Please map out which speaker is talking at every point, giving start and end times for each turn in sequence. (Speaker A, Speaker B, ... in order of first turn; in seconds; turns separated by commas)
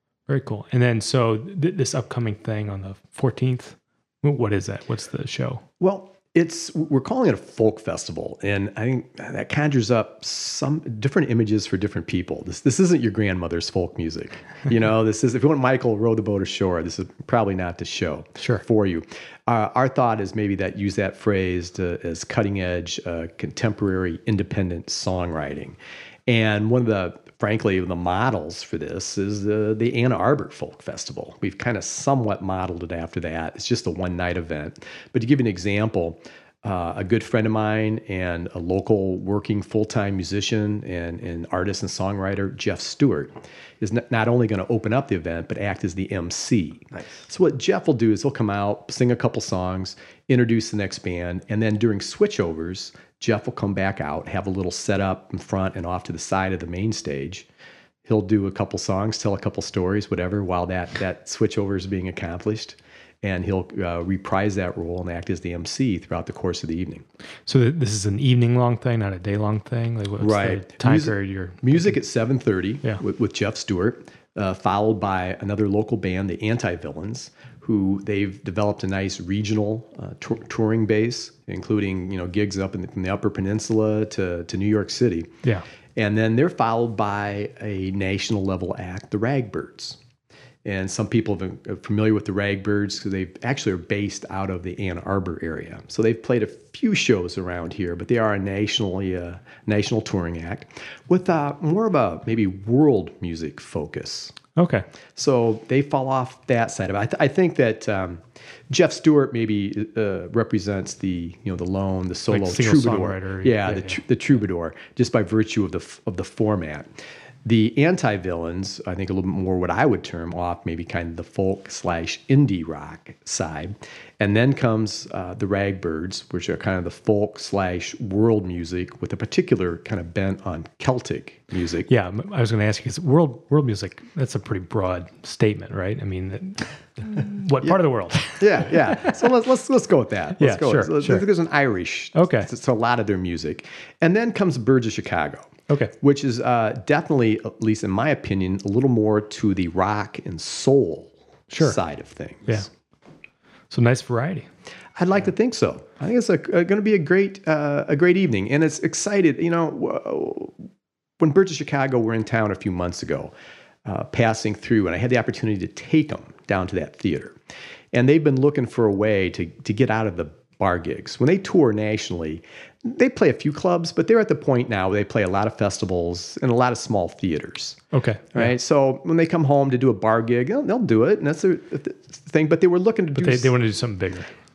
Speaker A: 0.3-5.6, Speaker B: 5.8-57.5, Speaker A: 18.4-18.6, Speaker B: 58.0-67.0, Speaker A: 67.5-72.0, Speaker B: 70.2-85.3, Speaker B: 86.0-90.0, Speaker B: 90.6-104.3, Speaker A: 104.5-104.8, Speaker B: 105.2-116.9, Speaker A: 112.3-114.0, Speaker B: 117.4-131.9, Speaker A: 131.9-139.2, Speaker B: 137.6-152.7, Speaker A: 140.4-141.3, Speaker A: 142.1-142.5, Speaker A: 151.5-151.8, Speaker A: 153.7-154.5, Speaker B: 154.9-160.7, Speaker B: 161.2-163.3, Speaker B: 163.8-167.3, Speaker B: 167.9-177.8, Speaker A: 177.9-178.5, Speaker B: 178.3-183.5, Speaker A: 183.1-184.3